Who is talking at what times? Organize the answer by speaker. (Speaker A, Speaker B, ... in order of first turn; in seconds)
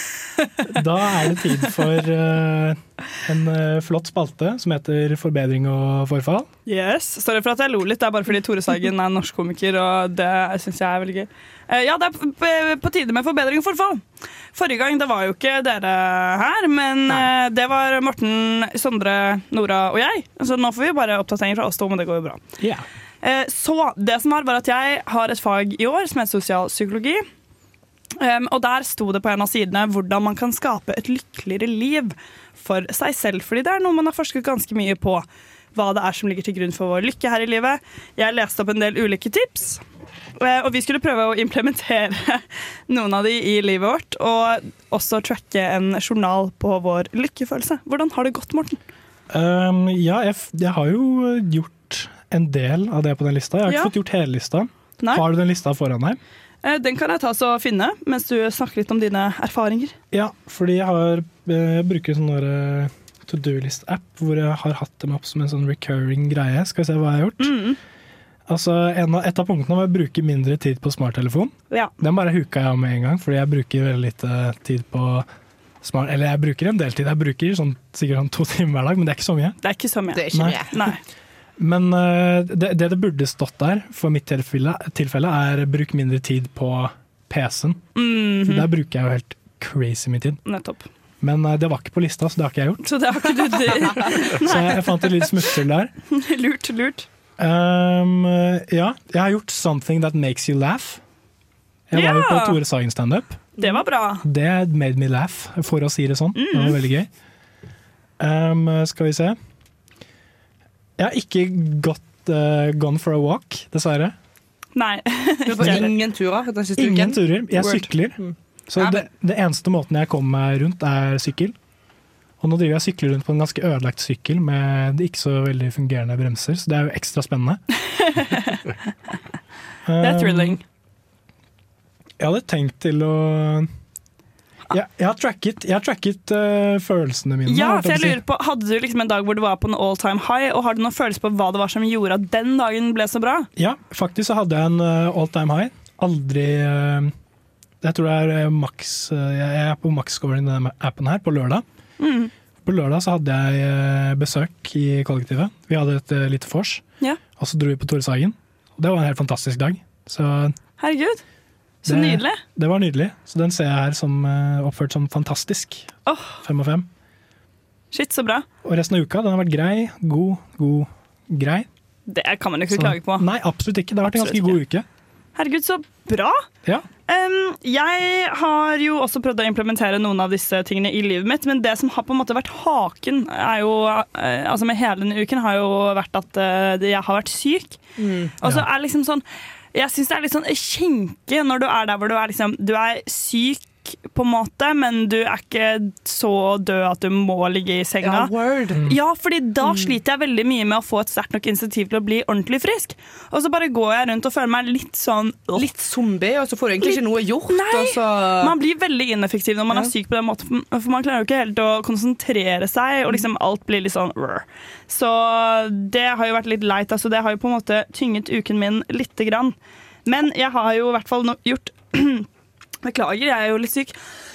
Speaker A: 0.7-6.5, 22.6-22.8, 49.3-56.2, 60.1-67.5, 68.5-75.3, 75.8-79.6, 80.3-80.6, 81.6-87.8, 88.4-90.4, 91.2-92.8, 94.4-95.9, 97.4-101.0, 101.9-103.5, 104.2-107.1, 108.2-109.3, 111.0-114.1, 115.6-115.9, 116.8-118.2, 118.7-121.5, 122.4-127.6, 129.9-130.6, 132.2-133.7, 134.7-138.2, 143.6-147.1, 147.8-151.6, 152.6-156.8, 157.4-160.5, 161.9-165.9, 166.4-166.9, 168.6-171.7, 172.7-174.8
Speaker B: 6.7-22.4, 23.2-27.2, 28.2-39.8, 40.4-48.8, 53.6-53.9, 55.0-55.2, 56.6-59.9, 67.4-67.8, 79.6-81.0, 88.0-88.7, 90.5-90.9, 92.8-95.1, 96.1-97.1, 101.9-102.6, 103.6-104.2, 106.3-106.8, 114.7-115.8, 128.0-128.6, 130.0-130.6, 137.4-143.5, 152.0-152.3, 160.8-161.2, 161.8-162.4, 166.1-166.4, 167.9-168.4, 172.1-173.3, 174.1-174.6, 175.3-176.4, 177.1-187.8, 188.4-189.2, 189.7-198.3, 198.8-205.7, 206.8-222.3, 222.8-223.9
Speaker C: 80.1-80.8, 93.7-94.0, 103.6-103.8, 115.5-119.1, 188.0-188.3, 198.0-198.8, 199.6-199.9, 205.5-208.5